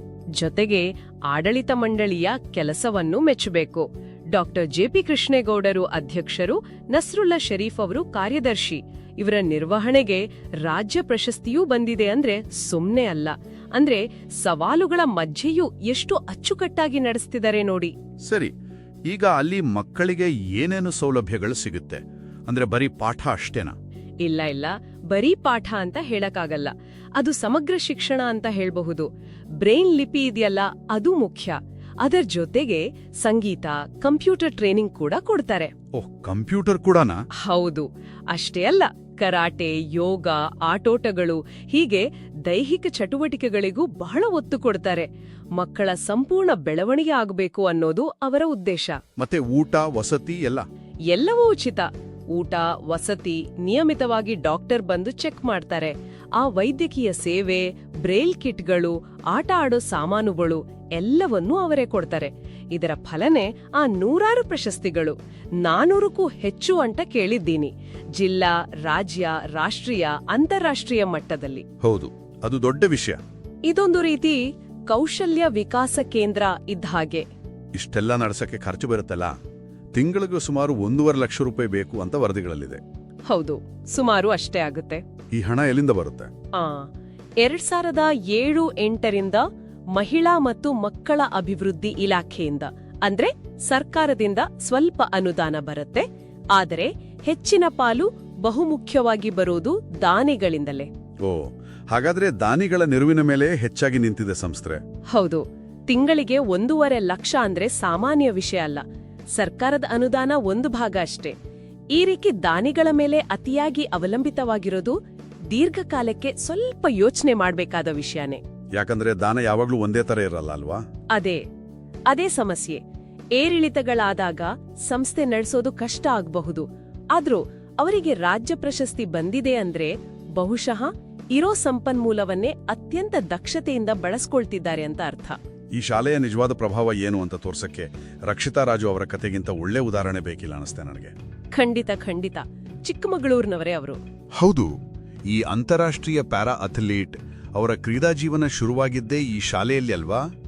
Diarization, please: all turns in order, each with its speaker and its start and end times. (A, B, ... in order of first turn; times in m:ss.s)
0:00.4-0:17.9 A
0:18.2-0:18.5 B
0:19.0-0:23.8 B
0:24.2-0:29.1 A
0:29.6-0:35.7 A
0:35.9-0:37.2 B
0:37.4-0:49.0 A
0:49.2-0:50.7 B
0:51.1-1:11.6 A
1:11.8-1:13.2 B
1:13.7-1:17.3 A
1:17.7-1:19.3 B
1:19.9-1:22.8 B
1:23.3-1:25.0 A
1:25.3-1:26.3 B
1:26.5-1:29.4 A
1:29.9-1:40.9 A
1:41.2-1:44.8 B
1:45.1-1:48.8 A
1:49.3-1:51.3 A
1:51.9-1:55.0 A
1:55.5-1:58.4 A
1:58.8-2:00.8 B
2:01.2-2:01.4 A
2:02.1-2:02.8 A
2:03.4-2:15.4 A
2:15.7-2:21.1 B
2:21.5-2:24.0 A
2:24.4-2:24.7 B
2:25.3-2:30.2 B